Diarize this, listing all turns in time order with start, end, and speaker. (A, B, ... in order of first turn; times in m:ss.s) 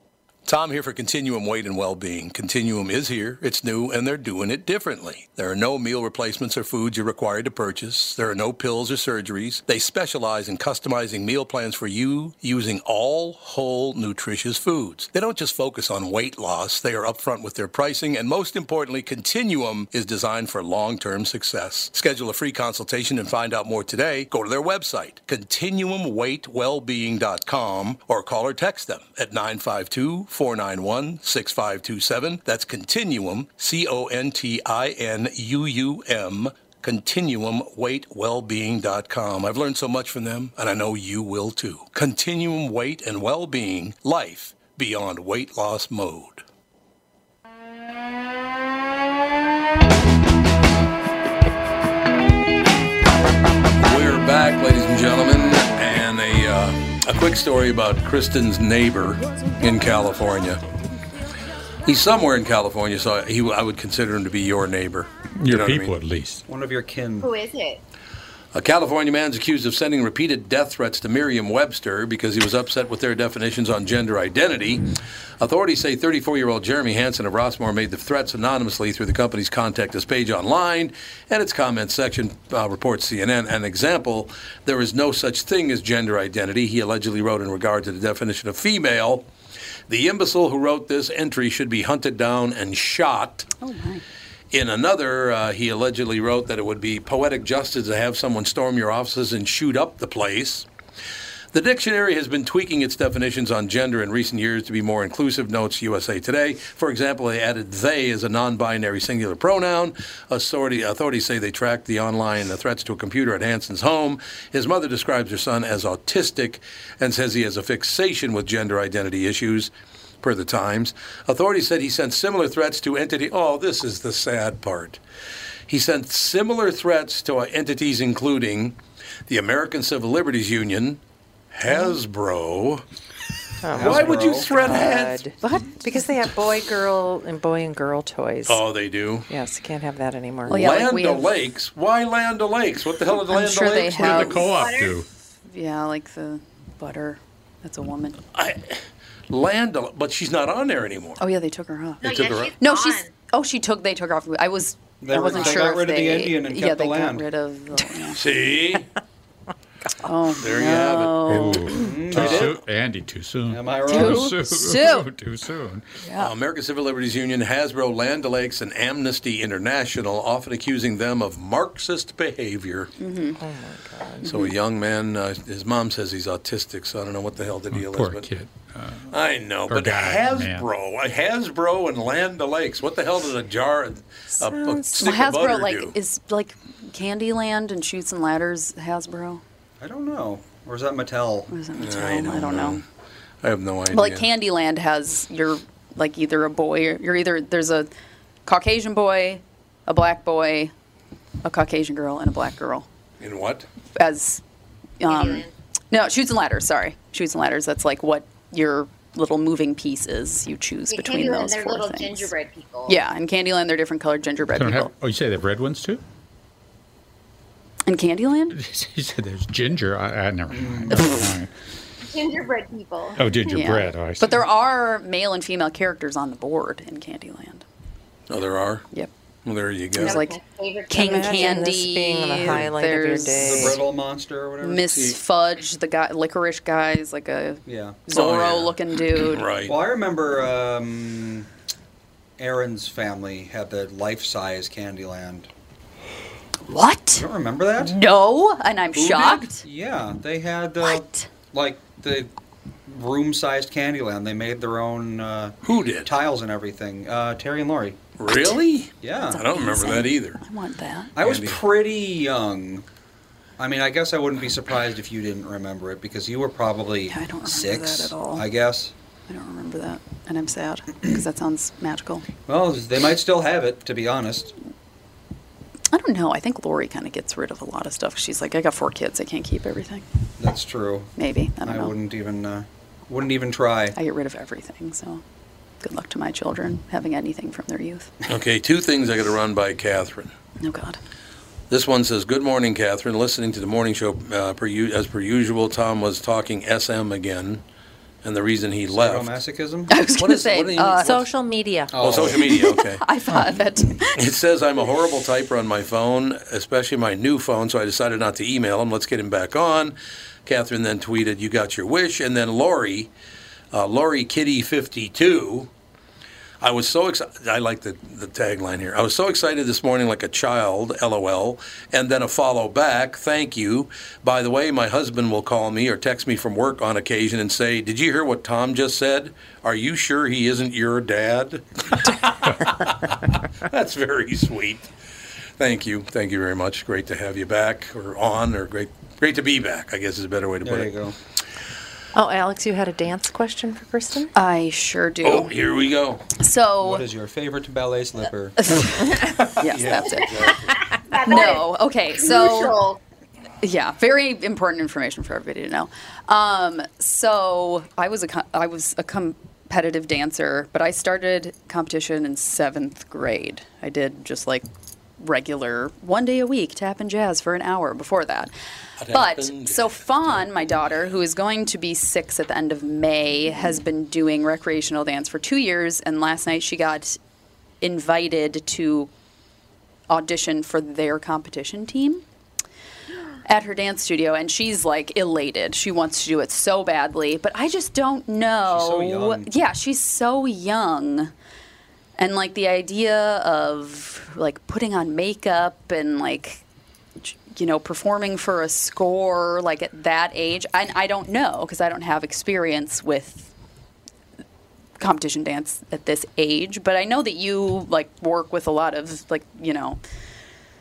0:00.5-0:46.4 A
0:53.8-1:00.6 A
1:01.8-1:05.9 A
1:05.4-1:06.4 B
1:06.5-1:07.3 C
1:07.2-1:07.8 D
1:08.5-1:14.9 A
1:15.4-1:29.3 A
1:29.9-1:33.5 A
1:33.6-1:34.0 E
1:34.5-1:40.7 A
1:41.5-2:05.0 A
2:05.7-2:11.0 A
2:11.5-2:12.8 A
2:13.6-2:18.6 F
2:13.7-2:14.5 C
2:13.7-2:15.3 A
2:15.4-2:15.7 E
2:18.5-2:19.3 A
2:19.3-2:20.6 F
2:20.5-2:21.3 E
2:20.5-2:24.3 A
2:23.3-2:24.7 E
2:24.0-2:25.1 B
2:24.1-2:25.0 D
2:25.5-2:28.2 E
2:28.3-2:31.2 A
2:31.2-2:38.2 E
2:32.0-2:33.1 D
2:32.0-2:32.5 A
2:35.0-2:37.3 C
2:38.2-2:38.9 A
2:40.0-2:42.4 E
2:40.4-2:41.6 A
2:41.3-2:45.9 B
2:41.7-2:42.6 C
2:43.5-2:44.4 C
2:43.9-2:45.1 E
2:46.0-2:46.3 E
2:46.2-2:52.9 A
2:53.0-2:53.4 E
2:53.4-2:54.4 F
2:54.2-2:58.3 A
2:57.7-2:59.1 B
2:59.1-3:06.0 A
2:59.7-3:00.7 B
3:04.4-3:05.0 F
3:05.0-3:09.4 E
3:09.8-3:11.5 C
3:11.5-3:12.8 E
3:11.8-3:12.8 A
3:13.4-3:14.3 A
3:13.9-3:17.9 E
3:18.5-3:20.7 E
3:21.4-3:22.9 E
3:23.2-3:23.7 A
3:24.0-3:24.4 E
3:25.0-3:32.3 E
3:25.1-3:25.5 D
3:30.9-3:33.0 D
3:32.9-3:34.9 E
3:34.5-3:36.0 B
3:37.9-3:38.6 E
3:38.5-3:41.5 B
3:40.5-3:41.0 C
3:42.1-3:43.3 D
3:43.2-3:44.4 B
3:43.5-3:47.6 E
3:48.3-3:48.9 A
3:49.4-3:50.2 A
3:50.0-3:50.4 E
3:50.0-3:51.7 D
3:50.9-3:53.9 E
3:51.0-3:53.8 F
3:53.4-3:54.9 C
3:54.6-3:59.6 E
3:54.9-3:55.2 A
3:57.7-3:58.0 C
3:58.1-3:59.8 A
3:59.6-4:01.5 C
4:02.4-4:05.5 C
4:06.7-4:07.3 E
4:07.2-4:08.0 C
4:07.8-4:09.6 E
4:09.0-4:12.3 C
4:10.8-4:11.3 E
4:12.9-4:18.0 C
4:15.6-4:16.1 A
4:18.2-4:20.4 A
4:19.0-4:19.4 C
4:19.1-4:21.1 E
4:21.2-4:22.8 C
4:21.2-4:21.6 A
4:23.6-4:28.9 C
4:27.1-4:28.5 E
4:29.3-4:32.3 E
4:32.5-4:34.5 C
4:35.9-4:40.0 E
4:40.4-4:44.0 C
4:41.2-4:42.0 E
4:44.0-4:45.2 E
4:45.8-4:48.1 E
4:48.3-4:50.3 A
4:50.6-4:51.0 E
4:51.7-4:57.6 A
4:58.2-4:59.4 A
4:58.9-4:59.9 C
4:59.9-5:01.2 E
5:00.2-5:01.2 A
5:01.0-5:02.0 F
5:01.9-5:02.4 C
5:02.0-5:03.1 A
5:02.4-5:04.2 E
5:04.2-5:13.1 A
5:13.7-5:15.7 A
5:16.6-5:34.9 A
5:35.6-5:40.9 A
5:40.6-5:41.2 C
5:42.1-5:44.3 F
5:44.4-5:45.5 E
5:45.2-5:46.2 A
5:46.4-5:47.1 E
5:46.8-5:48.6 C
5:48.6-5:50.6 E
5:49.6-5:50.8 A
5:51.1-5:53.0 D
5:51.2-5:52.8 E
5:53.6-6:04.6 E
6:05.2-6:08.5 E
6:09.0-6:10.5 A
6:09.1-6:17.2 E
6:17.8-6:19.1 E
6:20.1-6:22.2 E
6:23.5-6:31.3 E
6:28.6-6:29.5 C
6:32.2-6:36.6 E
6:37.2-6:43.5 E
6:45.0-6:50.0 E